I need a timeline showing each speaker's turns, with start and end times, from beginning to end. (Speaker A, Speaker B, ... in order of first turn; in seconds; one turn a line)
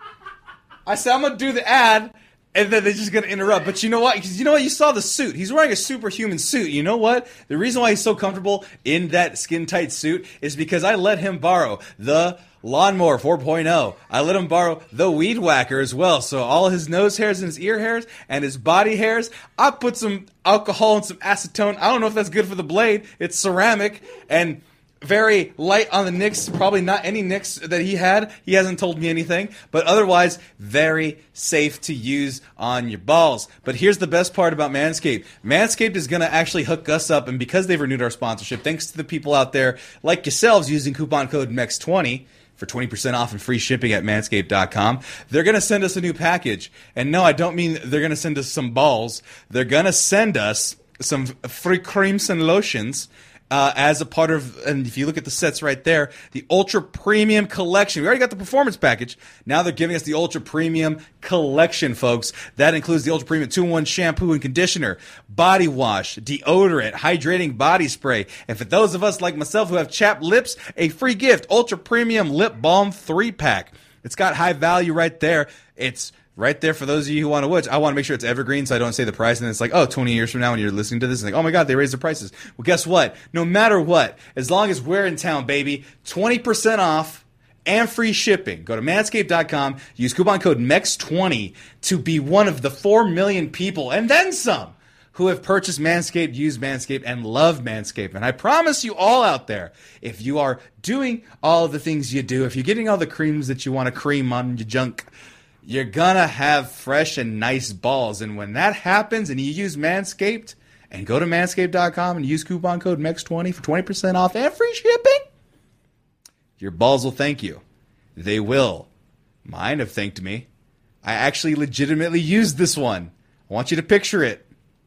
Speaker A: 0.8-105.1
Speaker A: 105.6-115.2
Speaker A: 116.6-117.6
Speaker A: 118.2-118.9
Speaker A: 119.4-120.5
Speaker A: 121.0-124.5